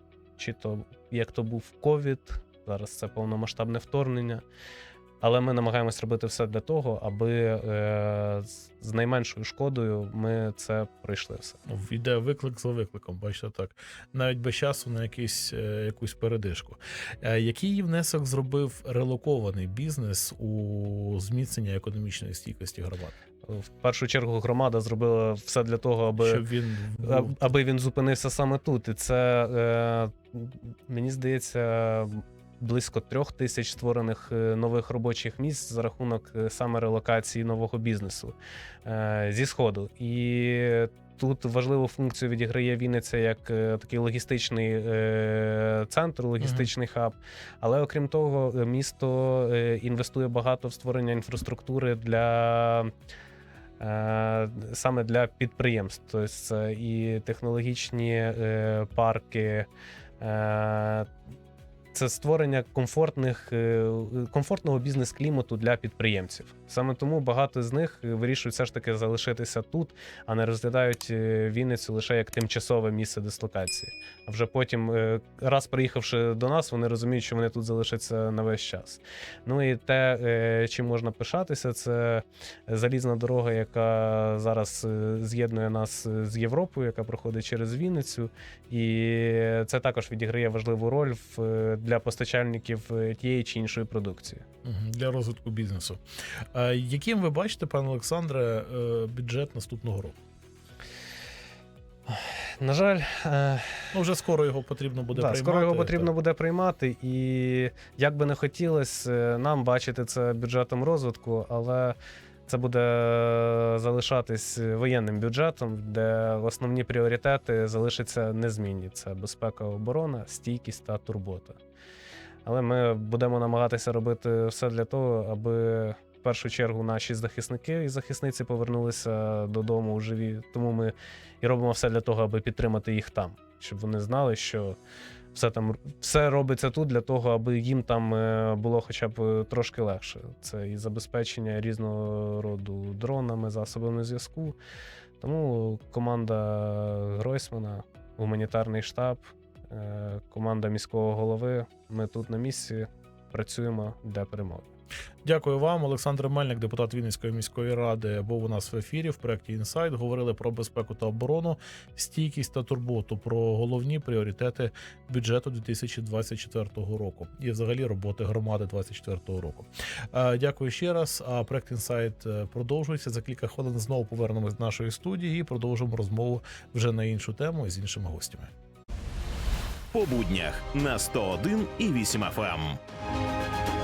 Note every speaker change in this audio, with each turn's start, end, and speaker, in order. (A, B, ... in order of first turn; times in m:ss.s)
0:00.4-0:04.4 A
0:05.2-0:11.6 A
0:11.7-0:23.2 B
0:23.4-0:26.4 A
0:26.2-0:27.5 B
0:27.0-0:52.9 A
0:46.4-0:46.7 B
0:53.8-0:59.7 A
1:00.2-1:01.1 A
1:01.9-1:34.4 A
1:34.6-1:40.2 B
1:42.1-1:43.9 A
1:43.9-1:46.1 B
1:45.1-1:52.0 A
1:52.5-2:01.6 A
2:02.4-2:14.8 A
2:15.3-2:24.6 A
2:25.2-2:34.7 A
2:35.2-2:58.5 B
2:59.9-3:02.8 C